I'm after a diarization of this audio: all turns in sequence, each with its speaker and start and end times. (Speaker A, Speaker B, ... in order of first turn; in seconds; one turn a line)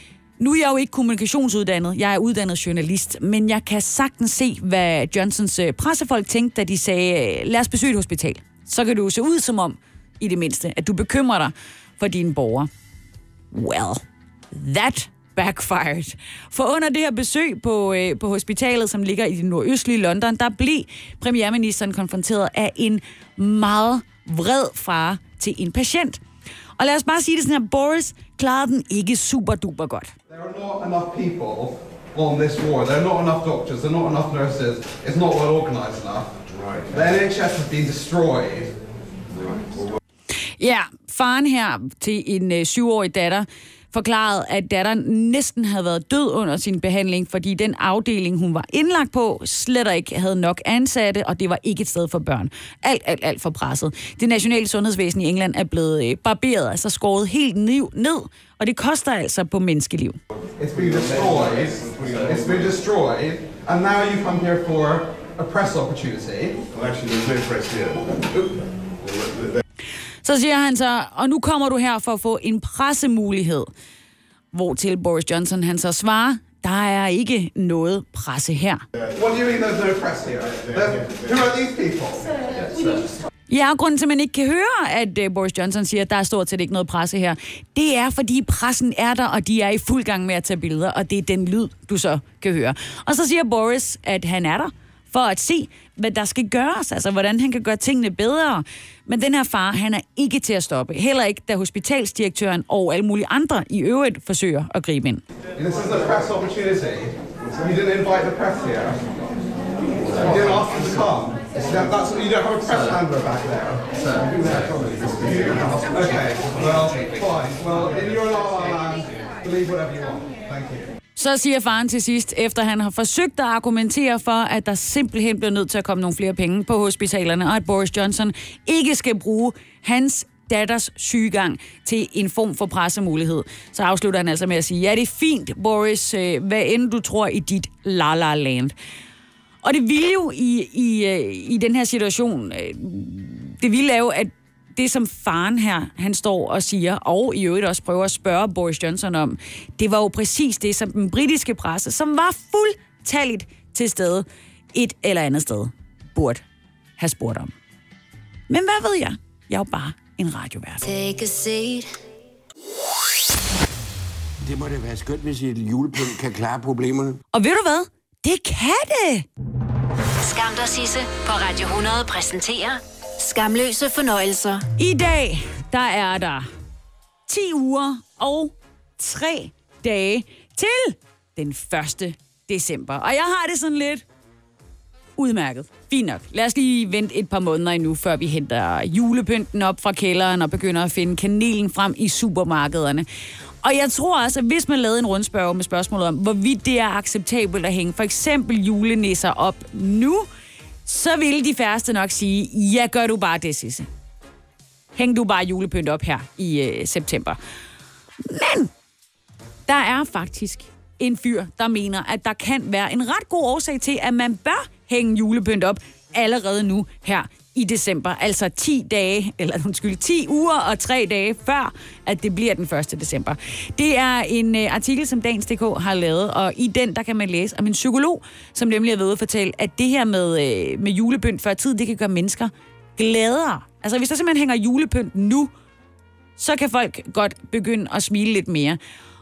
Speaker A: 0.4-12.7
Speaker A: 13.5-26.2
Speaker A: 26.8-30.1
Speaker B: 30.3-38.7
Speaker B: 39.4-39.7
Speaker A: 40.6-60.2
Speaker B: 60.6-68.6
Speaker A: 70.2-73.7
Speaker A: 74.5-78.8
Speaker B: 79.1-83.0
Speaker A: 83.5-105.2
Speaker B: 105.6-109.0
Speaker B: 110.1-120.9
Speaker A: 121.2-138.7
Speaker A: 139.6-156.4
Speaker A: 157.0-157.5
Speaker A: 158.5-160.8
Speaker C: 164.4-167.2
Speaker A: 167.3-169.3
Speaker D: 170.2-174.6
Speaker A: 174.8-176.5
Speaker A: 177.3-184.0
Speaker A: 185.2-193.1
Speaker A: 193.6-200.3
Speaker A: 200.8-203.9
Speaker A: 204.9-207.4
Speaker A: 208.2-208.7
Speaker A: 209.7-235.5
Speaker A: 236.4-238.8